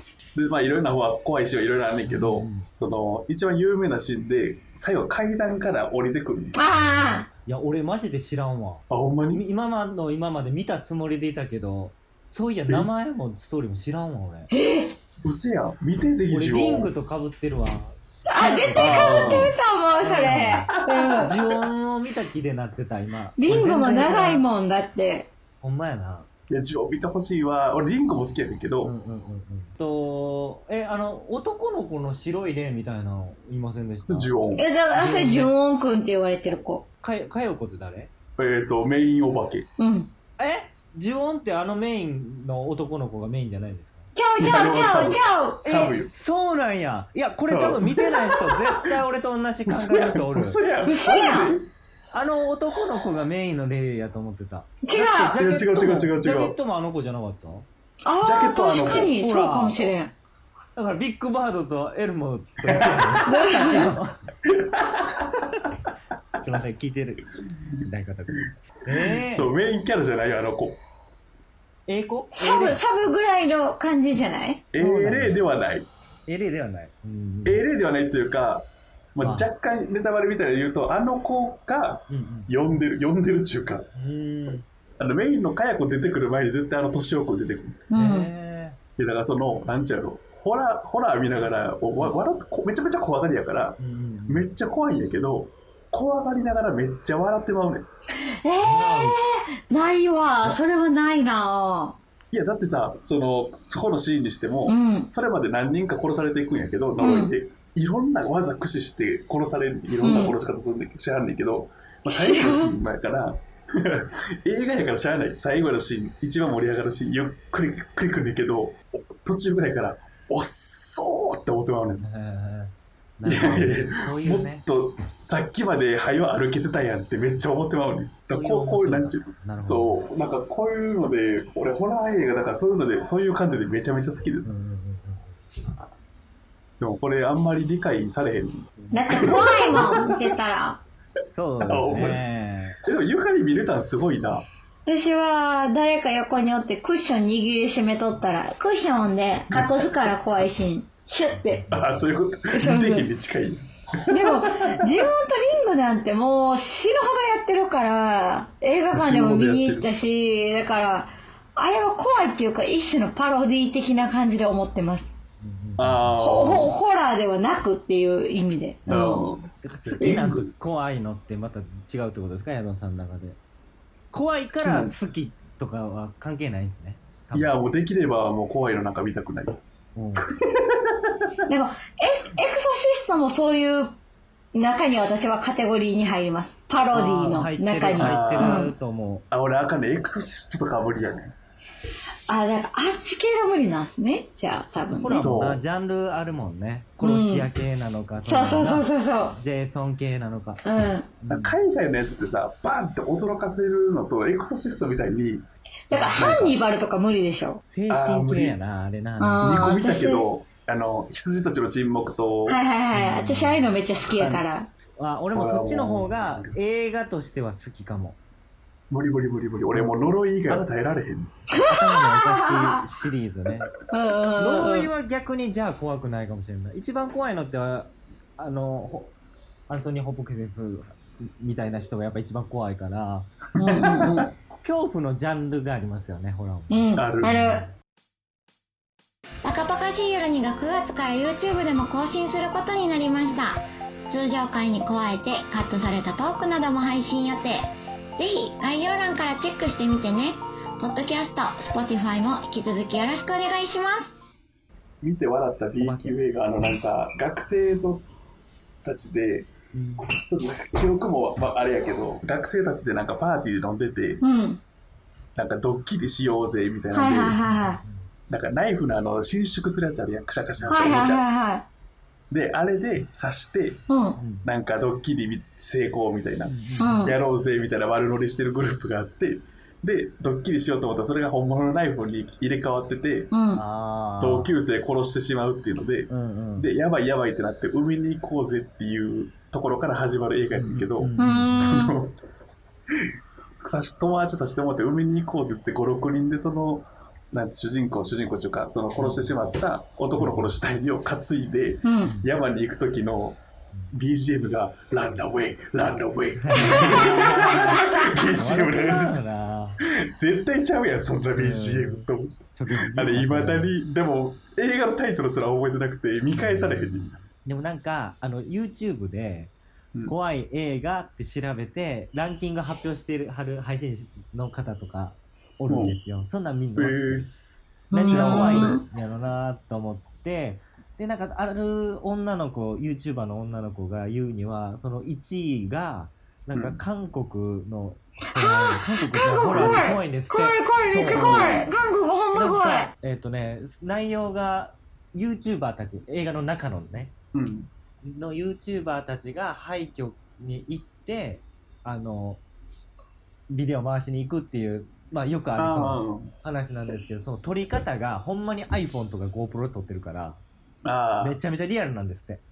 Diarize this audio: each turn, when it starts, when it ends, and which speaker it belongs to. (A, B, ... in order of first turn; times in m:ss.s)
0:00.3-0:06.6 A
0:02.0-0:02.7 B
0:06.5-0:07.3 C
0:06.7-0:14.5 B
0:08.9-0:09.4 A
0:14.5-0:15.0 C
0:15.2-0:16.9 A
0:16.2-0:24.4 B
0:18.3-0:21.3 C
0:18.8-0:19.5 A
0:20.5-0:21.7 A
0:23.4-0:25.3 C
0:25.6-0:26.3 B
0:26.5-0:28.9 A
0:28.8-0:34.4 B
0:34.0-0:34.6 A
0:34.6-0:36.8 C
0:34.9-0:35.5 B
0:37.0-0:38.1 B
0:38.4-0:39.6 A
0:39.8-0:40.1 C
0:40.4-0:44.1 B
0:44.2-0:46.0 C
0:44.3-0:46.1 A
0:46.0-0:50.6 B
0:47.5-0:49.0 A
0:49.7-0:51.7 A
0:50.8-0:51.6 C
0:52.1-0:57.7 B
0:54.8-0:55.4 C
0:55.4-0:56.6 A
0:58.0-1:00.1 C
0:58.2-0:59.1 A
0:58.9-0:59.9 B
1:00.8-1:04.2 B
1:02.7-1:03.2 A
1:03.2-1:03.9 C
1:04.5-1:05.3 A
1:06.4-1:07.3 B
1:07.8-1:09.5 B
1:09.0-1:10.8 A
1:11.9-1:12.8 B
1:12.4-1:14.6 C
1:14.7-1:15.9 A
1:14.7-1:15.4 B
1:16.3-1:17.6 B
1:17.4-1:23.8 A
1:19.2-1:19.5 B
1:22.1-1:22.5 B
1:23.9-1:24.6 B
1:25.0-1:27.8 A
1:27.9-1:28.3 C
1:28.0-1:28.8 B
1:29.0-1:37.8 A
1:33.8-1:34.5 B
1:38.2-1:42.0 C
1:38.6-1:39.2 B
1:42.3-2:02.0 A
1:44.7-1:45.1 C
1:47.0-1:47.3 C
1:50.0-1:50.3 C
1:52.1-1:52.8 C
2:02.0-2:04.6 B
2:03.2-2:14.5 A
2:08.3-2:10.0 B
2:14.4-2:15.4 B
2:16.8-2:20.0 A
2:18.8-2:19.3 B
2:18.9-2:20.8 C
2:21.2-2:22.8 B
2:21.6-2:22.2 A
2:22.8-2:24.4 A
2:24.8-2:31.7 C
2:29.5-2:30.1 A
2:31.3-2:32.1 B
2:31.7-2:34.7 A
2:32.5-2:33.1 C
2:34.1-2:45.1 C
2:38.9-2:39.9 A
2:45.4-2:46.2 B
2:45.8-2:46.7 A
2:46.2-2:49.3 C
2:48.9-2:53.4 B
2:48.9-2:50.5 A
2:54.1-2:57.6 B
2:54.4-2:55.0 A
2:57.3-2:59.6 A
2:59.9-3:00.2 B
3:00.4-3:01.0 A
3:01.5-3:04.0 C
3:04.5-3:08.7 C
3:06.9-3:09.2 B
3:08.0-3:08.7 A
3:09.3-3:11.3 A
3:12.3-3:15.3 C
3:14.8-3:20.6 B
3:15.1-3:15.6 A
3:17.0-3:17.5 C
3:18.3-3:19.4 C
3:20.6-3:21.1 C
3:21.2-3:21.6 B
3:21.3-3:25.4 A
3:25.9-3:27.6 C
3:26.1-3:26.6 A
3:27.6-3:29.7 B
3:27.9-3:28.6 A
3:29.2-3:30.3 C
3:29.4-3:32.6 A
3:32.5-3:34.7 C
3:32.9-3:34.4 B
3:35.0-3:38.2 B
3:35.3-3:36.6 A
3:38.9-3:41.3 A
3:39.7-3:40.7 B
3:41.5-3:42.8 C
3:41.6-3:43.7 B
3:43.9-3:44.9 C
3:44.4-3:49.1 B
3:49.7-3:53.3 B
3:53.6-3:54.3 C
3:53.8-3:54.2 A
3:54.5-3:57.7 B
3:56.7-3:57.7 C
3:57.0-3:57.5 A
3:59.4-4:14.1 C
4:15.0-4:18.0 A
4:15.8-4:16.3 B
4:18.8-4:19.5 A
4:19.7-4:20.1 B
4:20.2-4:24.2 A
4:24.2-4:24.6 C
4:25.4-4:27.4 A
4:26.9-4:27.8 C
4:27.4-4:28.1 B
4:28.3-4:31.2 A
4:30.5-4:31.1 B
4:30.7-4:31.6 C
4:32.3-4:33.8 A
4:33.9-4:34.2 C
4:34.2-4:34.5 B
4:34.4-4:43.3 A
4:36.4-4:37.2 B
4:36.8-4:37.2 C
4:43.3-4:43.6 C
4:43.5-4:44.5 B
4:44.2-4:52.2 A
4:46.1-4:46.7 B
4:50.5-4:51.8 B
4:51.2-4:52.0 C
4:53.6-5:03.4 A
4:59.0-4:59.4 B
5:00.1-5:00.6 B
5:01.8-5:02.2 C
5:02.0-5:02.3 B
5:03.9-5:09.2 A
5:06.4-5:09.8 B
5:06.6-5:08.1 C
5:10.0-5:17.2 A
5:11.3-5:13.7 B
5:16.3-5:19.5 B
5:20.0-5:27.3 B
5:25.7-5:26.0 A
5:26.8-5:27.2 A
5:27.9-5:28.8 C
5:27.9-5:28.8 A
5:28.0-5:41.6 B
5:38.4-5:42.9 C
5:39.5-5:39.9 A
5:41.1-5:41.7 A
5:42.3-5:47.1 B
5:47.3-5:47.7 A
5:48.0-5:52.4 B
5:53.5-6:00.4 B
5:55.6-5:56.3 A
6:00.8-6:01.4 A
6:01.2-6:02.4 B